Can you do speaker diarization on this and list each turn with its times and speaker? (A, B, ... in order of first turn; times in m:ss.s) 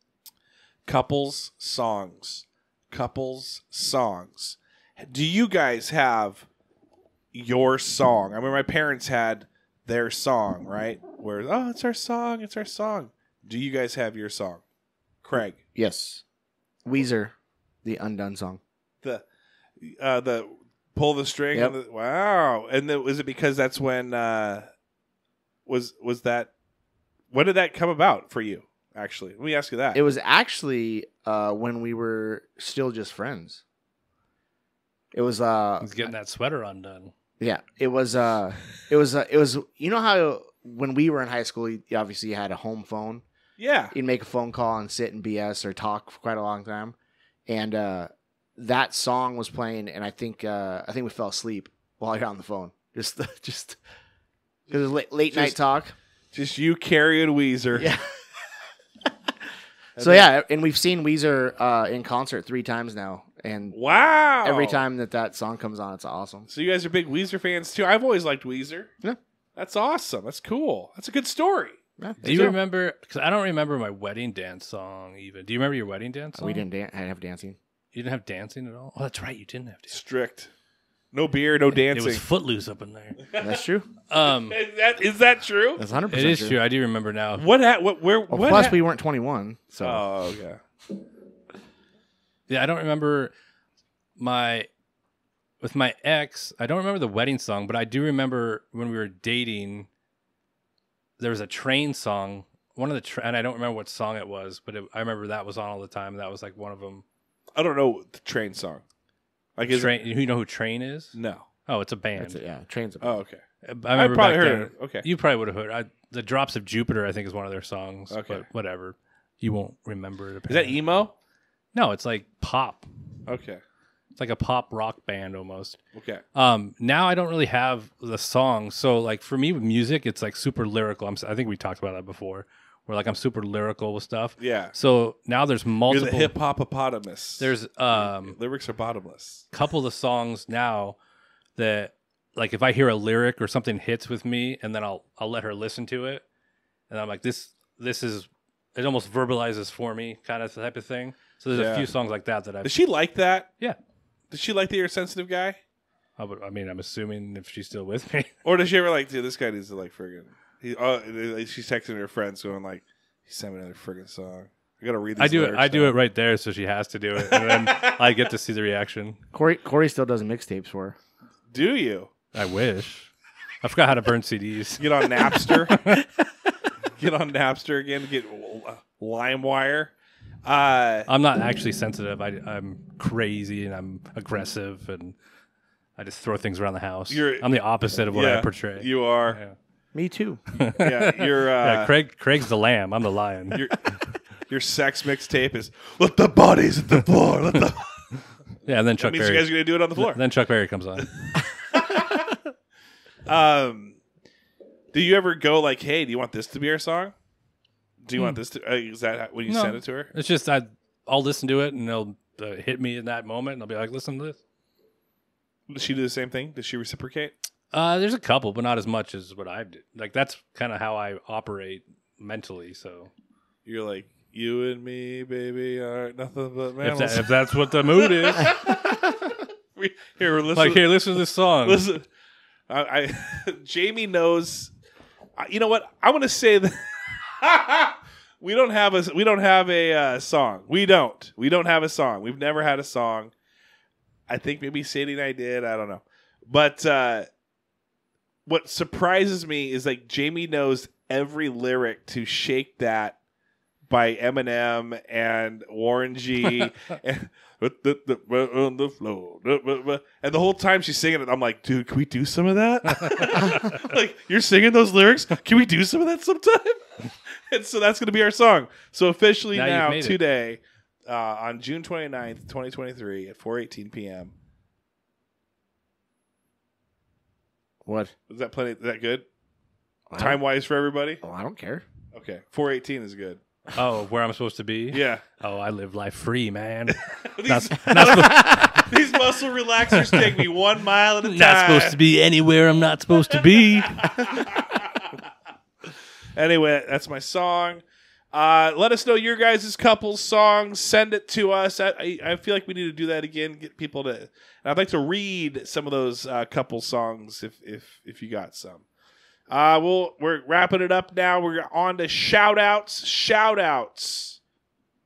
0:00.9-0:06.5 A
0:07.3-0:14.6 A
0:15.2-0:15.6 A
0:15.8-0:16.2 B
0:16.9-0:18.6 B
0:19.8-0:24.7 A
0:25.7-0:26.5 A
0:27.3-0:30.0 A
0:29.9-0:33.6 B
0:35.1-0:36.1 B
0:35.8-0:37.1 C
0:37.4-0:43.2 B
0:43.6-0:44.0 A
0:43.9-0:47.0 B
0:47.5-0:53.8 B
0:54.7-0:56.0 B
0:55.3-0:55.6 A
0:56.3-0:57.9 A
0:57.8-0:58.0 B
1:00.0-1:00.3 A
1:00.0-1:03.8 B
1:03.7-1:04.8 A
1:04.4-1:06.5 B
1:06.5-1:08.9 A
1:09.6-1:12.5 A
1:12.0-1:12.5 B
1:12.2-1:16.6 C
1:16.4-1:17.6 B
1:17.9-1:19.9 C
1:19.9-1:20.5 A
1:21.1-1:22.2 A
1:21.9-1:23.2 C
1:23.2-1:23.6 A
1:23.4-1:23.9 B
1:24.1-1:24.6 C
1:24.2-1:25.8 A
1:25.8-1:26.6 B
1:26.1-1:27.4 C
1:27.4-1:28.8 A
1:28.3-1:30.1 B
1:29.8-1:30.6 A
1:32.5-1:33.3 C
1:34.2-1:34.7 C
1:35.6-1:39.9 C
1:41.2-1:47.0 C
1:47.6-1:48.8 A
1:49.6-1:50.0 A
1:49.7-1:51.2 C
1:51.2-1:51.4 A
1:51.7-1:52.4 C
1:52.2-1:53.2 B
1:53.0-1:53.4 A
1:53.6-2:00.8 C
1:53.9-1:55.1 A
1:58.1-1:58.4 A
2:00.5-2:01.1 A
2:01.7-2:02.9 C
2:03.3-2:03.6 A
2:04.2-2:05.8 C
2:05.9-2:06.2 A
2:06.4-2:16.3 C
2:14.4-2:14.7 A
2:15.9-2:19.4 A
2:17.4-2:18.4 C
2:19.5-2:21.0 C
2:21.6-2:26.2 C
2:26.9-2:32.7 C
2:31.5-2:31.9 A
2:32.6-2:33.5 A
2:34.3-2:35.6 A
2:36.2-2:38.3 C
2:38.4-2:45.9 A
2:45.2-2:49.2 C
2:47.2-2:48.0 A
2:49.3-2:51.0 B
2:51.5-2:52.1 A
2:52.3-2:53.1 C
2:53.6-2:56.0 C
2:54.8-2:55.9 A
2:57.0-2:59.9 A
3:00.4-3:01.1 A
3:01.1-3:05.2 C
3:06.0-3:09.6 C
3:07.1-3:07.4 A
3:08.1-3:09.4 A
3:09.9-3:10.4 B
3:10.5-3:14.0 C
3:10.8-3:11.9 A
3:13.5-3:18.1 A
3:18.1-3:21.1 C
3:19.0-3:20.2 A
3:21.0-3:22.4 A
3:23.3-3:24.0 A
3:24.9-3:27.1 A
3:28.0-3:30.1 A
3:29.5-3:34.4 C
3:35.7-3:37.3 A
3:37.7-3:43.1 C
3:43.7-3:52.0 A
3:46.8-3:48.6 C
3:50.6-3:51.8 C
3:52.7-3:54.7 A
3:55.4-4:03.3 A
4:04.3-4:07.3 A
4:08.5-4:13.2 A
4:13.9-4:34.3 A
4:22.9-4:23.8 C
4:29.5-4:30.2 C
4:37.8-4:38.1 B
4:38.3-4:39.3 A
4:40.1-4:40.4 B
4:40.2-4:41.2 A
4:41.2-4:41.9 B
4:42.1-4:43.4 A
4:43.7-4:48.9 C
4:44.9-4:45.2 A
4:47.1-4:52.0 A
4:48.1-4:48.9 B
4:49.9-4:50.4 C
4:51.2-4:54.5 C
4:53.3-4:55.2 A
4:56.4-5:08.8 A
5:09.5-5:14.4 A